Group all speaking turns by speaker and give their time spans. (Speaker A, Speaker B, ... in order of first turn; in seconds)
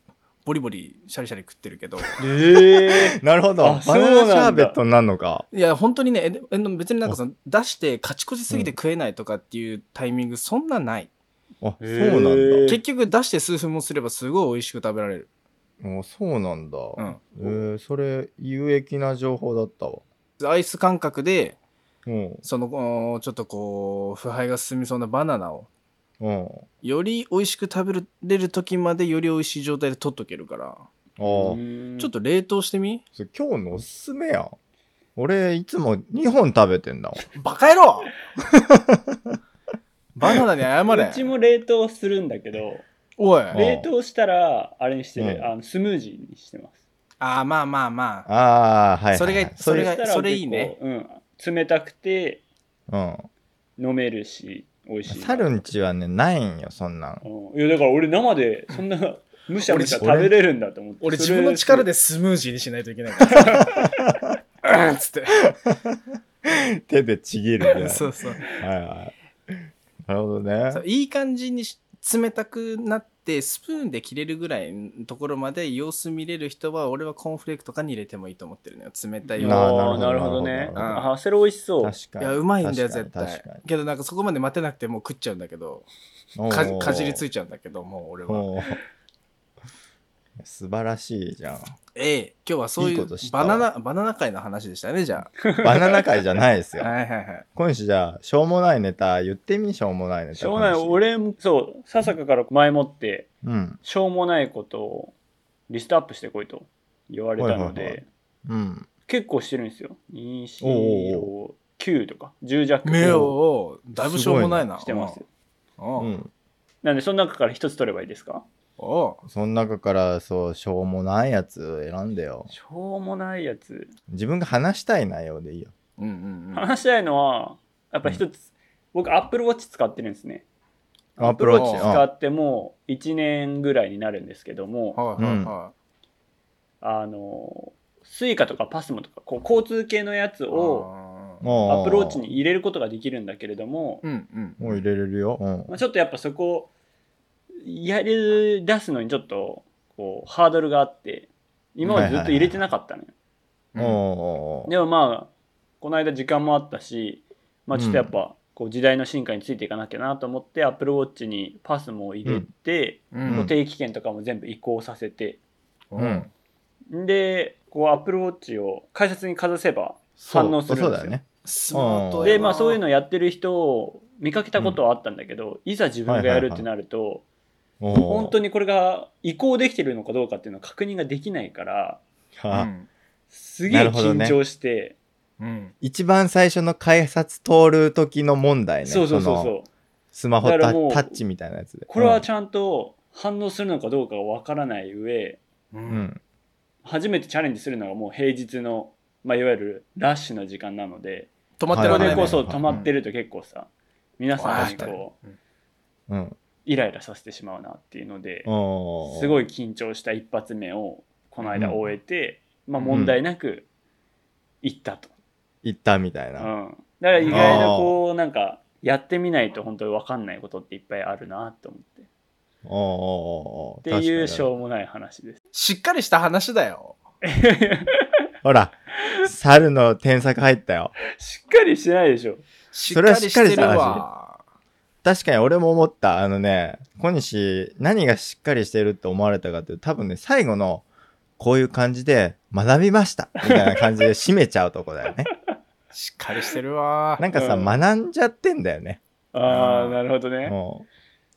Speaker A: 0.5-2.2, 5.5-11.1, 12.7-15.3, 17.0-17.5, 20.4-21.6, 22.4-25.7, 26.8-30.8, 32.0-33.0, 37.3-38.1, 40.1-41.3, 43.2-43.6, 47.2-48.3, 49.1-50.7, 59.6-60.1, 61.0-63.7, 64.6-65.4, 67.7-68.4, 70.7-80.0, 80.7-81.1, 82.2-85.9, 86.5-88.5, 91.9-95.3, 96.8-97.4, 112.8-115.2, 115.8-116.1, 118.8-119.2, 126.0-126.7, 131.6-131.9, 134.9-135.7, 140.5-141.4, 144.0-144.8, 153.7-154.0, 163.1-163.5, 165.9-166.3, 171.4-172.8, 182.5-182.9, 185.4-185.7, 195.7-196.1, 201.6-202.9, 204.4-205.3, 217.1-217.7, 225.5-227.0, 232.7-234.4, 245.9-247.2, 249.4-250.0
Speaker B: 2.2-4.8, 11.8-12.8, 31.2-32.1, 40.9-42.9, 43.5-46.7, 49.6-52.4, 53.8-55.7, 57.2-61.9, 63.3-63.6, 79.3-82.0, 95.4-96.0, 100.3-103.3, 103.8-105.1, 105.7-108.0, 109.1-113.3, 114.8-115.3, 116.8-118.4, 122.5-123.9, 126.5-130.4, 131.2-135.0, 136.8-140.9, 141.7-144.0, 145.7-146.7, 147.6-153.1, 154.7-165.4, 166.9-171.2, 172.2-177.2, 177.9-182.0, 183.3-184.9, 188.8-189.7, 190.4-191.2, 191.9-195.4, 196.8-205.1, 206.6-208.5, 209.0-213.7, 214.6-215.1, 216.4-222.1, 223.8-225.4, 227.2-228.1, 231.1-232.4, 243.4-243.8, 247.3-247.8, 249.3-250.5
Speaker C: 2.7-5.5, 11.6-12.7, 15.8-20.0, 22.1-22.4, 26.2-26.7, 31.2-31.6, 33.1-34.5, 35.1-37.2, 38.4-39.4, 43.5-43.9, 45.2-45.5, 48.3-49.9, 52.9-53.3, 55.1-57.2, 60.0-60.3, 65.5-70.8, 79.4-81.0, 81.8-83.6, 86.3-87.2, 88.3-88.8, 90.4-91.7, 92.8-93.7, 95.6-96.9, 97.5-101.0, 103.4-103.8, 107.4-108.9, 110.6-111.3, 113.0-113.3, 114.0-114.7, 116.0-116.3, 119.2-122.5, 124.1-125.7, 131.2-132.1, 135.2-135.5, 141.4-142.2, 144.6-145.7, 151.8-152.6, 153.8-154.7, 157.7-158.1, 163.2-163.5, 165.9-166.3, 170.2-172.4, 176.1-176.7, 177.8-178.3, 182.3-182.7, 183.7-184.4, 185.8-189.5, 190.1-192.2, 195.9-196.2, 201.7-202.8, 204.6-204.9, 206.1-206.3, 208.4-209.4, 211.5-211.8, 212.9-213.2, 215.6-216.5, 217.3-217.9, 222.6-224.5, 228.4-230.9, 232.9-234.0, 235.0-240.8, 241.4-245.3, 247.2-249.0, 250.4-250.8